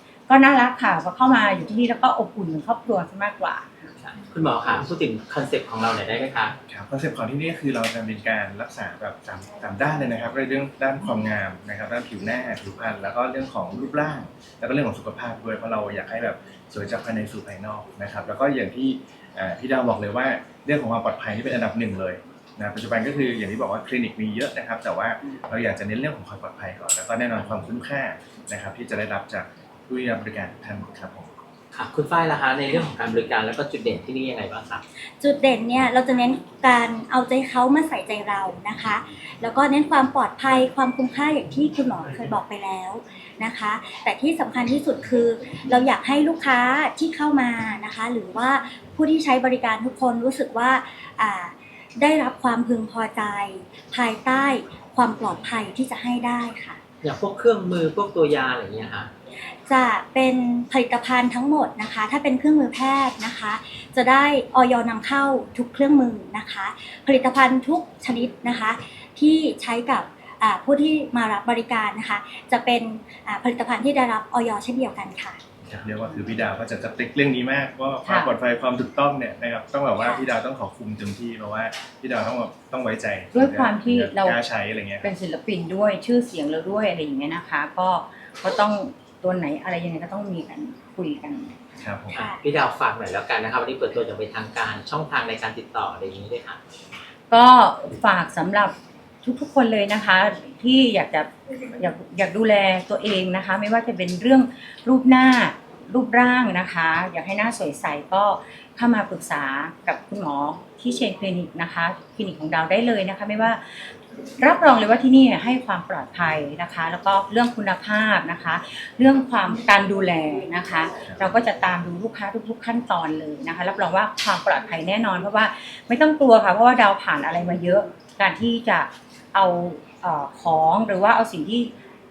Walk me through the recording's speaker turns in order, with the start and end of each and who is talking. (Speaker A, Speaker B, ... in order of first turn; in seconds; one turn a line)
Speaker A: 0.3-3.9
Speaker B: 4.0-6.5
Speaker C: 6.8-31.2
Speaker B: 31.7-34.8
Speaker D: 35.0-56.8
Speaker B: 57.0-59.1
Speaker D: 59.4-75.4
Speaker C: 75.7-85.0
Speaker A: 78.0-78.3
Speaker D: 80.0-80.3
Speaker A: 83.3-84.4
Speaker A: 85.0-91.5
Speaker B: 92.1-96.6
Speaker D: 92.1-92.4
Speaker A: 97.3-131.7